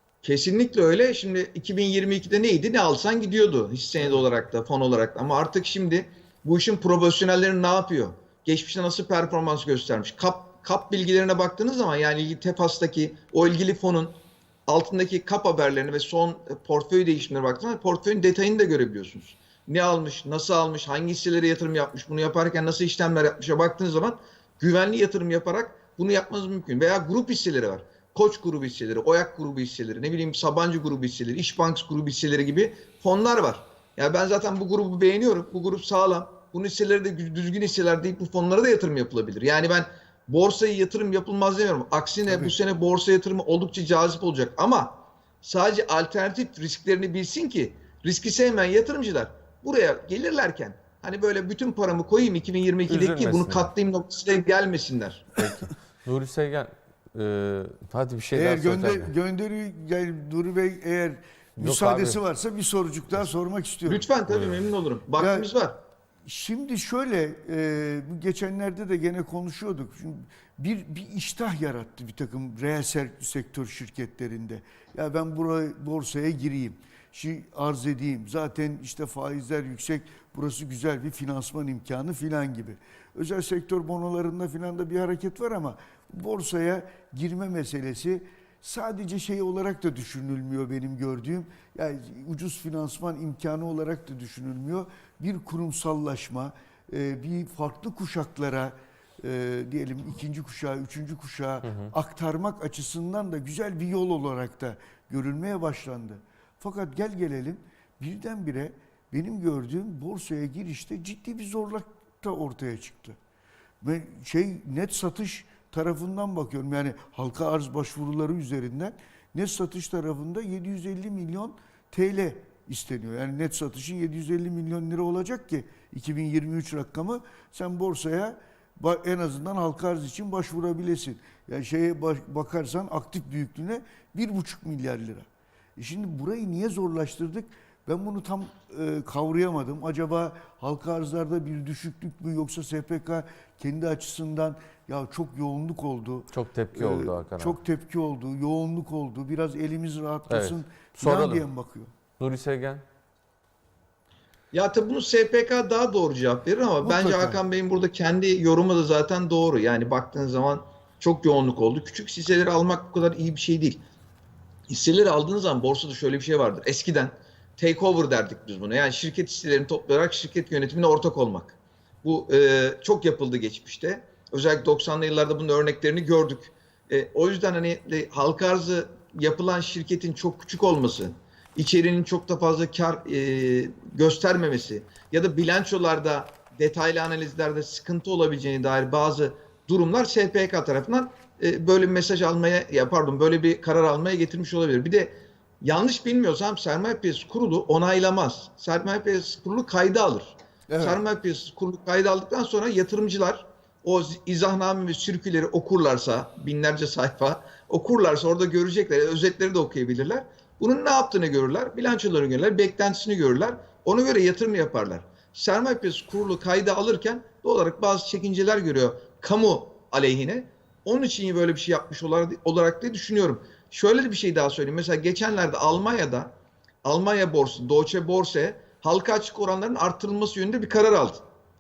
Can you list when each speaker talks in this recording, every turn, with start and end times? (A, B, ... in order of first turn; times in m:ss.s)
0:00.2-0:55.3 A
0:42.3-0:42.6 B
0:52.9-0:53.7 C
0:55.4-0:59.1 C
0:58.3-1:04.0 B
1:01.6-1:02.2 C
1:03.8-1:05.8 A
1:05.2-1:05.5 B
1:06.2-1:53.2 B
1:41.6-1:41.9 C
1:53.8-2:15.3 B
2:15.8-2:31.9 B
2:26.3-2:27.6 C
2:30.3-2:31.5 C
2:32.2-2:32.8 C
2:34.5-2:43.8 A
2:36.8-2:37.4 B
2:44.7-3:46.3 A
3:20.7-3:21.0 B
3:46.8-3:51.2 A